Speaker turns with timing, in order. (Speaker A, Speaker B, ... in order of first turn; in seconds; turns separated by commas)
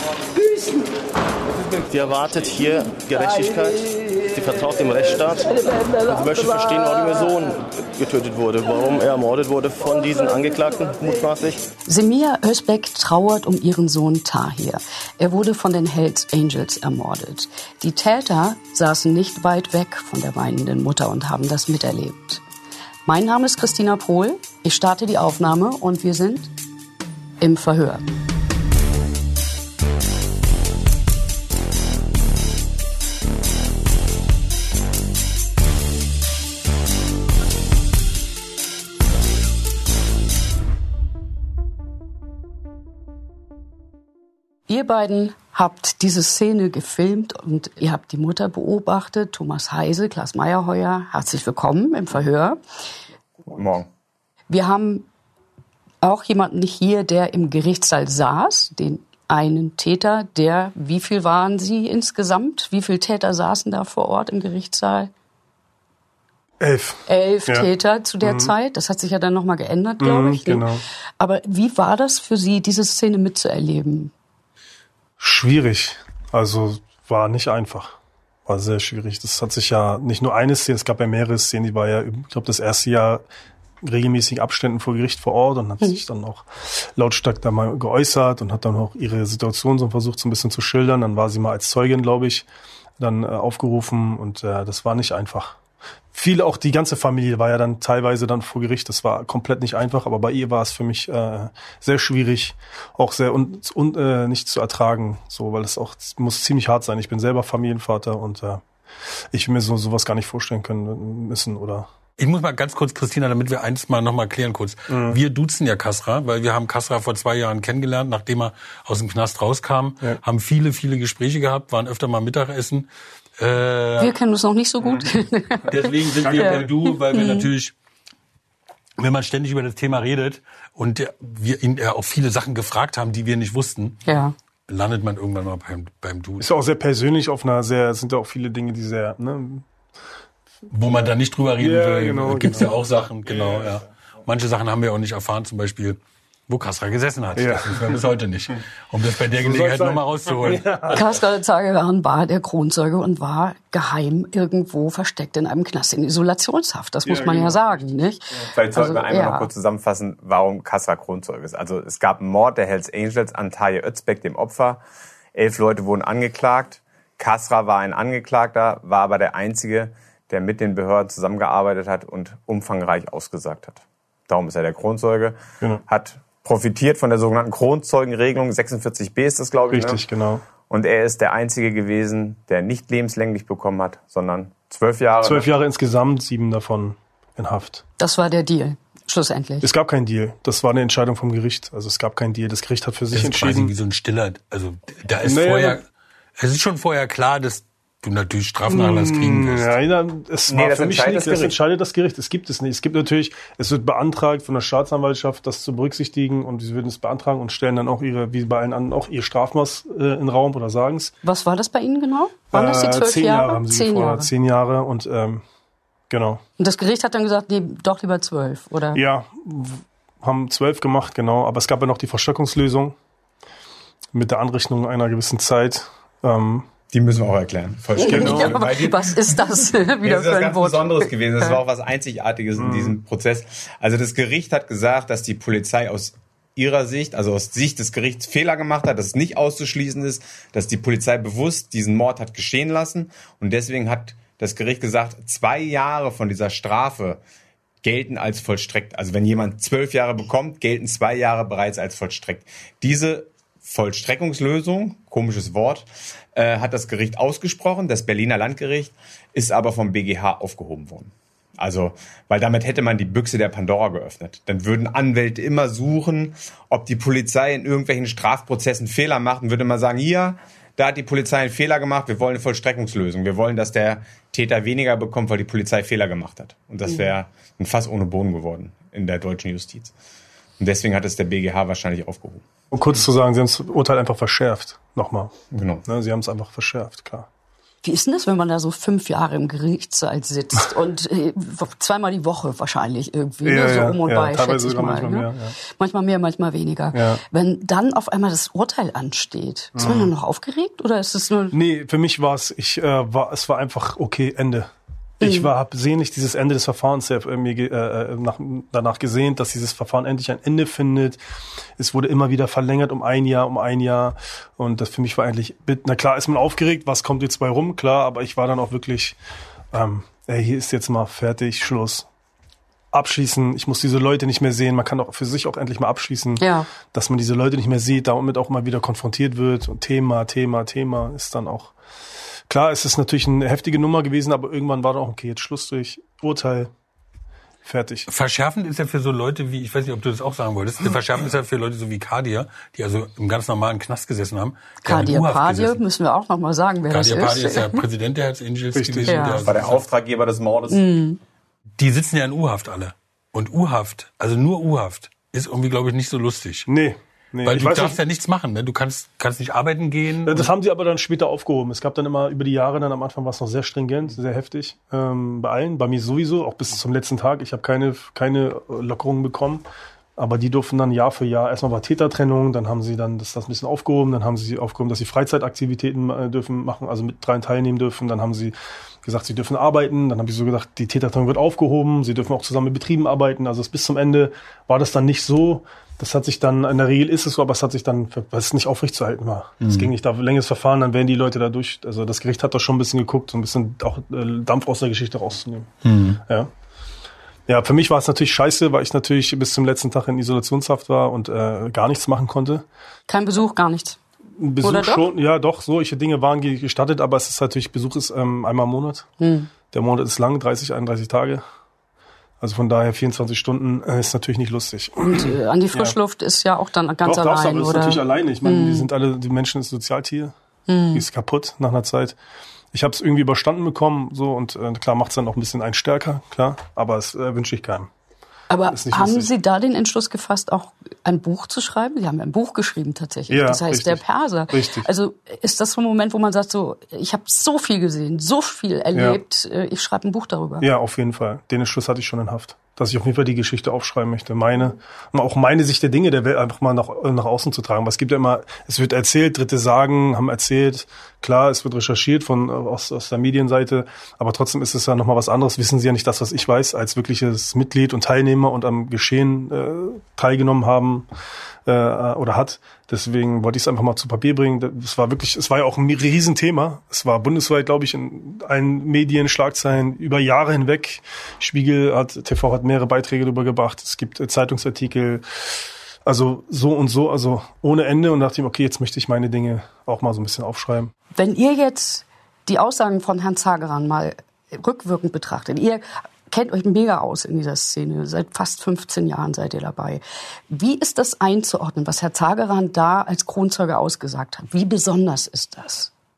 Speaker A: 0.4-0.9, Speaker A: 1.7-11.6, Speaker B: 11.9-22.4, Speaker B: 23.1-26.5, Speaker B: 27.4-28.0, Speaker B: 44.7-52.6, Speaker C: 53.5-53.9, Speaker B: 54.5-55.0, Speaker B: 56.0-65.1, Speaker D: 66.6-67.7, Speaker B: 67.1-74.1, Speaker D: 68.2-68.5, Speaker D: 70.0-70.8, Speaker D: 75.2-78.0, Speaker D: 78.5-83.2, Speaker D: 83.8-92.5, Speaker D: 93.0-95.6, Speaker D: 96.1-108.6, Speaker D: 109.3-111.9, Speaker E: 112.2-122.9, Speaker D: 114.9-115.2, Speaker E: 123.4-124.1, Speaker B: 124.0-127.5, Speaker E: 125.7-127.7, Speaker D: 126.3-126.6, Speaker E: 129.0-134.0, Speaker B: 134.1-134.3, Speaker E: 134.7-136.5, Speaker D: 136.4-139.7, Speaker E: 140.7-151.2, Speaker D: 140.9-143.8, Speaker D: 147.4-148.0, Speaker D: 149.4-151.0, Speaker B: 150.9-159.5, Speaker D: 157.1-158.5, Speaker C: 158.6-164.8, Speaker C: 165.3-180.0, Speaker D: 179.7-180.4, Speaker C: 180.7-185.5, Speaker D: 185.2-187.8, Speaker B: 188.0-189.7, Speaker D: 189.6-193.7, Speaker E: 193.1-195.8, Speaker D: 195.2-195.8, Speaker E: 196.4-199.7, Speaker D: 198.7-211.1, Speaker C: 200.5-201.6, Speaker B: 211.2-214.3, Speaker D: 212.5-215.4, Speaker D: 216.1-216.4, Speaker B: 216.6-219.0, Speaker D: 218.9-223.0, Speaker D: 224.1-226.7, Speaker C: 226.9-247.2, Speaker B: 228.0-231.6, Speaker D: 228.0-228.6, Speaker D: 232.6-233.0, Speaker C: 247.8-279.9, Speaker C: 280.6-282.4, Speaker D: 282.7-285.3, Speaker C: 285.5-285.8, Speaker D: 285.9-287.3, Speaker B: 287.8-301.6, Speaker D: 293.4-295.5, Speaker D: 296.9-297.2, Speaker D: 299.8-300.1, Speaker D: 301.5-311.2, Speaker B: 305.2-305.5, Speaker D: 311.8-319.2, Speaker D: 319.7-322.1, Speaker D: 322.9-331.7, Speaker B: 326.4-326.7, Speaker D: 332.5-336.7, Speaker D: 337.6-338.1, Speaker E: 338.1-345.8, Speaker B: 344.8-347.8, Speaker E: 346.9-349.8, Speaker D: 348.7-349.4, Speaker B: 349.1-349.4, Speaker C: 349.4-350.8, Speaker B: 350.7-351.2, Speaker E: 351.8-356.7, Speaker D: 356.7-358.0, Speaker E: 357.4-360.5, Speaker D: 360.2-369.6, Speaker D: 370.2-395.7, Speaker E: 389.6-389.9, Speaker E: 395.8-396.2, Speaker D: 397.5-402.6, Speaker B: 403.1-404.0, Speaker D: 404.4-409.1, Speaker B: 404.6-405.1, Speaker B: 409.2-409.5, Speaker D: 409.7-411.4, Speaker D: 412.4-415.9, Speaker B: 415.0-418.9, Speaker D: 417.1-420.3, Speaker B: 420.7-421.1, Speaker D: 420.9-422.2, Speaker D: 422.7-427.9, Speaker B: 428.5-440.7, Speaker D: 428.7-429.3, Speaker D: 433.3-434.9, Speaker D: 438.9-439.2, Speaker D: 440.6-461.1, Speaker D: 461.7-475.2, Speaker D: 476.1-480.9, Speaker B: 481.1-495.9